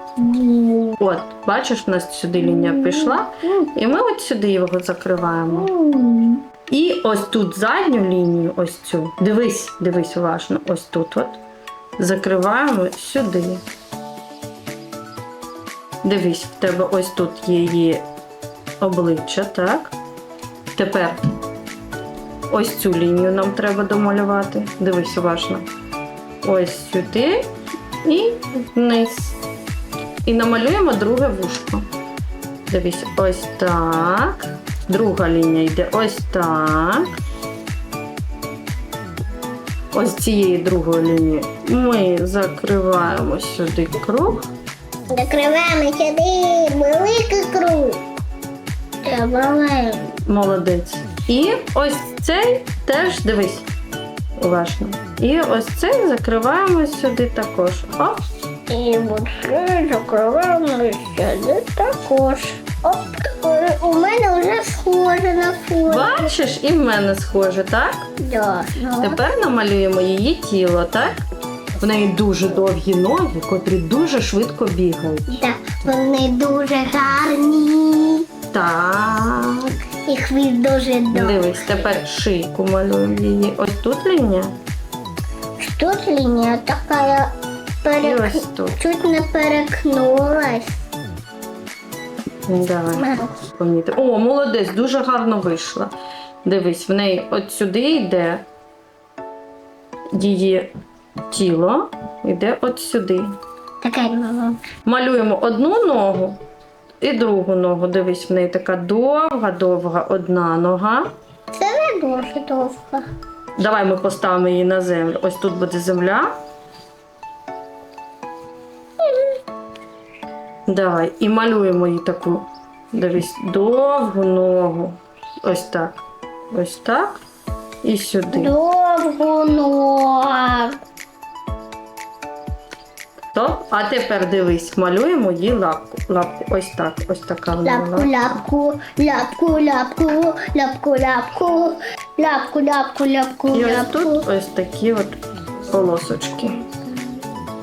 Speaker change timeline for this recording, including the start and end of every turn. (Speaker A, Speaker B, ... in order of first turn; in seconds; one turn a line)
Speaker A: 0.2-0.9
Speaker B: 0.9-5.7
Speaker A: 2.6-3.2
Speaker A: 5.6-6.4
Speaker B: 6.7-11.4
Speaker B: 12.0-13.6
Speaker B: 16.0-18.0
Speaker B: 18.8-19.9
Speaker B: 20.7-21.2
Speaker B: 22.5-25.7
Speaker B: 26.4-27.5
Speaker B: 28.0-29.4
Speaker B: 30.2-31.9
Speaker B: 32.7-37.1
Speaker B: 39.9-44.5
Speaker A: 45.1-48.0
Speaker A: 49.0-50.1
Speaker B: 50.2-53.6
Speaker B: 54.4-58.2
Speaker A: 58.7-66.3
Speaker B: 65.9-68.1
Speaker A: 68.2-69.2
Speaker B: 69.0-71.2
Speaker B: 71.8-75.4
Speaker A: 75.3-78.3
Speaker B: 78.5-79.7
Speaker A: 80.0-81.6
Speaker B: 81.1-84.5
Speaker A: 85.6-90.8
Speaker B: 88.0-88.8
Speaker B: 92.5-95.9
Speaker A: 92.9-93.3
Speaker B: 96.4-98.4
Speaker B: 100.1-100.7
Speaker B: 101.3-103.3
Speaker A: 103.8-104.6
Speaker B: 104.8-106.4
Speaker B: 107.0-111.1
Speaker A: 111.5-113.0
Speaker B: 113.6-116.3
Speaker B: 120.7-127.2
Speaker B: 127.8-128.5
Speaker A: 128.3-130.8
Speaker B: 133.3-138.4
Speaker A: 137.6-144.2
Speaker B: 143.5-145.2
Speaker B: 145.7-146.6